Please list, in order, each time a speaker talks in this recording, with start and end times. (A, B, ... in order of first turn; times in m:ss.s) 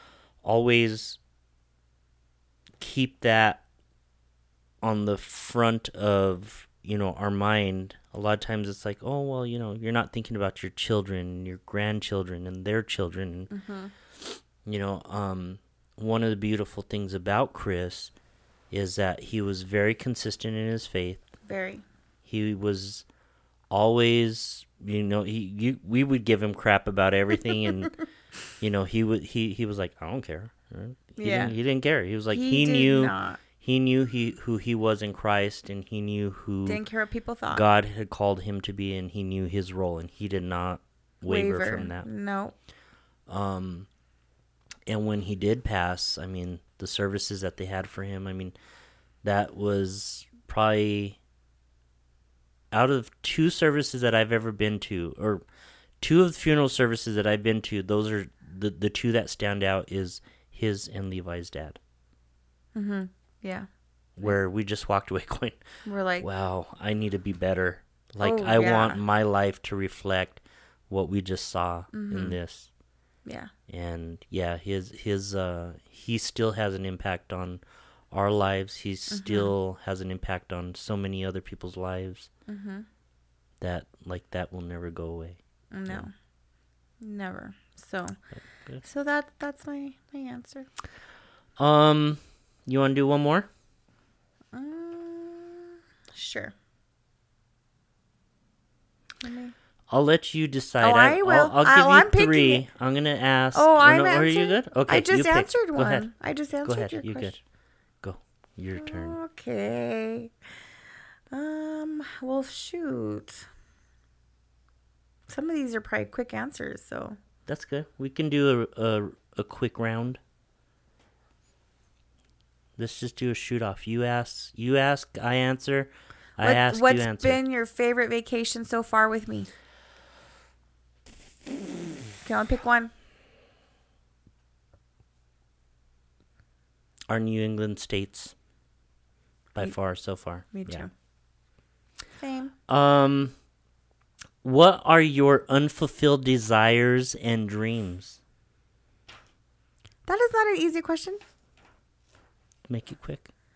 0:00.4-0:01.2 A
0:02.8-0:03.6 A
0:04.8-0:13.5 A
0:13.5-0:13.9 B
0:14.6-0:18.1 A
0:18.7-0:21.2 A
0:21.4-0:21.8 B
0:22.2-0:23.0 A
0:23.7-0:27.9 A
0:28.6-0:36.8 A
0:31.2-0:31.5 B
0:32.3-0:33.4 B
0:36.6-0:37.6 B
0:37.5-0:42.0 A
0:41.3-0:42.5 B
0:43.3-0:43.9 A
0:44.9-0:48.5 A
0:49.2-0:51.2 A
0:52.7-0:55.4 A
0:56.0-1:01.8 A
1:02.7-1:03.7 B
1:04.2-1:05.6 A
1:05.8-1:06.3 B
1:06.2-1:12.7 A
1:08.2-1:09.0 B
1:11.9-1:12.4 B
1:13.2-1:13.5 B
1:13.7-1:22.3 A
1:19.1-1:19.5 B
1:22.5-1:22.8 B
1:23.6-1:26.0 A
1:25.7-1:26.1 B
1:27.0-1:28.2 B
1:28.8-1:30.7 B
1:31.6-1:33.5 A
1:34.5-1:36.5 B
1:39.2-1:39.5 B
1:39.9-1:46.1 A
1:40.8-1:42.7 B
1:43.5-1:47.3 B
1:46.6-1:47.4 A
1:48.0-1:49.2 A
1:48.8-1:50.3 B
1:51.3-1:53.5 B
1:55.3-1:57.2 B
1:57.5-2:00.2 A
2:02.8-2:07.4 A
2:06.4-2:09.5 B
2:12.2-2:12.9 B
2:17.1-2:18.3 A
2:19.5-2:20.8 A
2:20.5-2:20.9 B
2:22.2-2:22.5 B
2:22.7-2:23.3 A
2:24.4-2:28.2 A
2:30.0-2:31.2 B
2:32.7-2:33.3 A